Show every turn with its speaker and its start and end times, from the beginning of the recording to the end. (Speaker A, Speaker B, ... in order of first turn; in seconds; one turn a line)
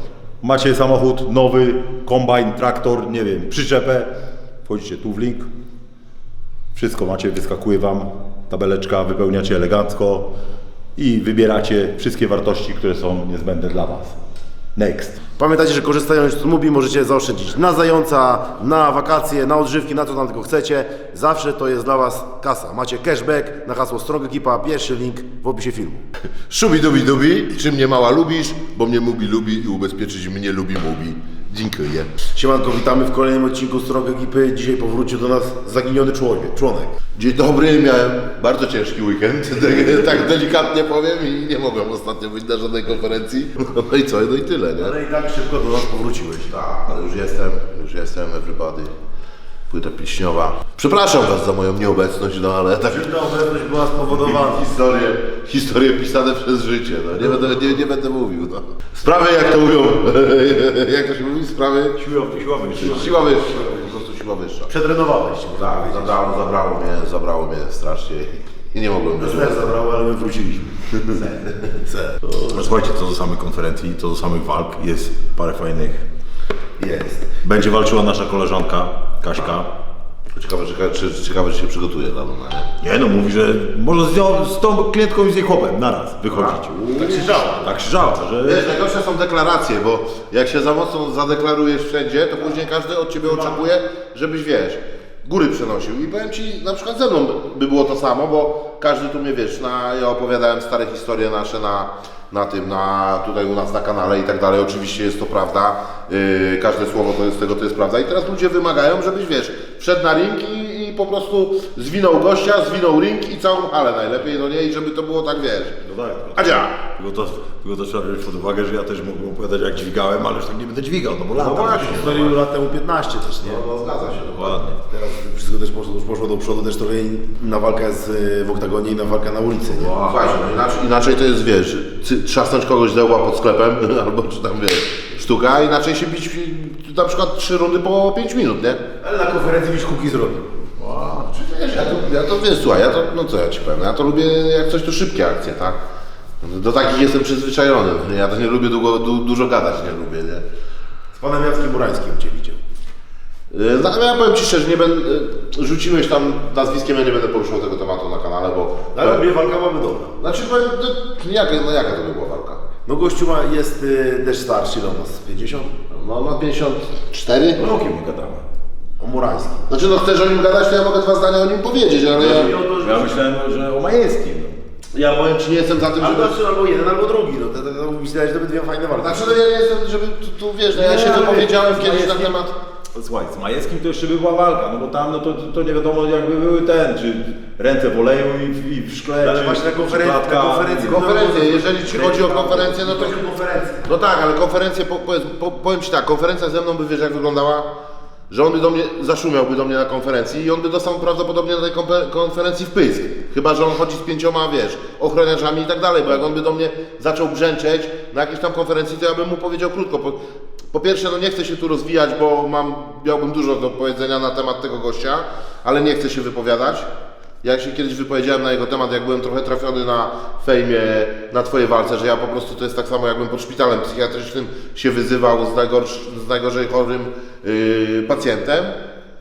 Speaker A: 0.4-4.1
Speaker A: 4.6-5.5
Speaker A: 6.7-10.3
Speaker A: 10.9-14.2
Speaker A: 14.8-15.2
Speaker B: 15.4-26.0
Speaker C: 26.5-32.1
Speaker B: 32.3-36.9
Speaker C: 37.1-44.9
Speaker B: 44.8-46.5
Speaker C: 46.5-48.9
Speaker C: 49.7-53.1
Speaker B: 52.9-54.6
Speaker C: 54.1-62.0
Speaker A: 62.0-63.2
Speaker C: 62.8-64.7
Speaker B: 64.7-66.3
Speaker C: 65.5-69.6
Speaker B: 69.2-72.4
Speaker A: 72.4-76.0
Speaker B: 76.8-77.3
Speaker A: 77.4-79.7
Speaker C: 80.3-82.7
Speaker A: 82.8-88.7
Speaker C: 86.3-87.5
Speaker B: 86.8-87.7
Speaker C: 88.4-115.8
Speaker B: 93.3-93.6
Speaker A: 115.8-122.3
Speaker C: 116.3-116.7
Speaker C: 121.3-122.3
Speaker B: 121.8-123.7
Speaker C: 123.4-124.6
Speaker A: 124.3-124.8
Speaker B: 124.8-130.0
Speaker A: 129.7-130.3
Speaker C: 130.0-138.8
Speaker B: 139.0-140.7
Speaker C: 140.8-145.8
Speaker C: 146.4-150.4
Speaker B: 151.1-152.6
Speaker C: 153.5-159.2
Speaker B: 158.9-160.2
Speaker C: 160.2-162.6
Speaker B: 162.8-165.7
Speaker C: 165.9-167.6
Speaker A: 167.6-168.4
Speaker B: 169.0-169.7
Speaker C: 169.7-172.5
Speaker B: 172.2-173.2
Speaker A: 172.3-174.6
Speaker C: 174.9-176.4
Speaker B: 176.0-179.4
Speaker C: 179.0-182.5
Speaker A: 180.8-182.3
Speaker B: 181.1-181.4
Speaker A: 182.9-191.2
Speaker B: 189.2-193.9
Speaker C: 190.9-193.2
Speaker A: 191.8-192.7
Speaker C: 193.8-197.7
Speaker C: 198.3-210.2
Speaker C: 210.7-216.9
Speaker C: 217.4-228.8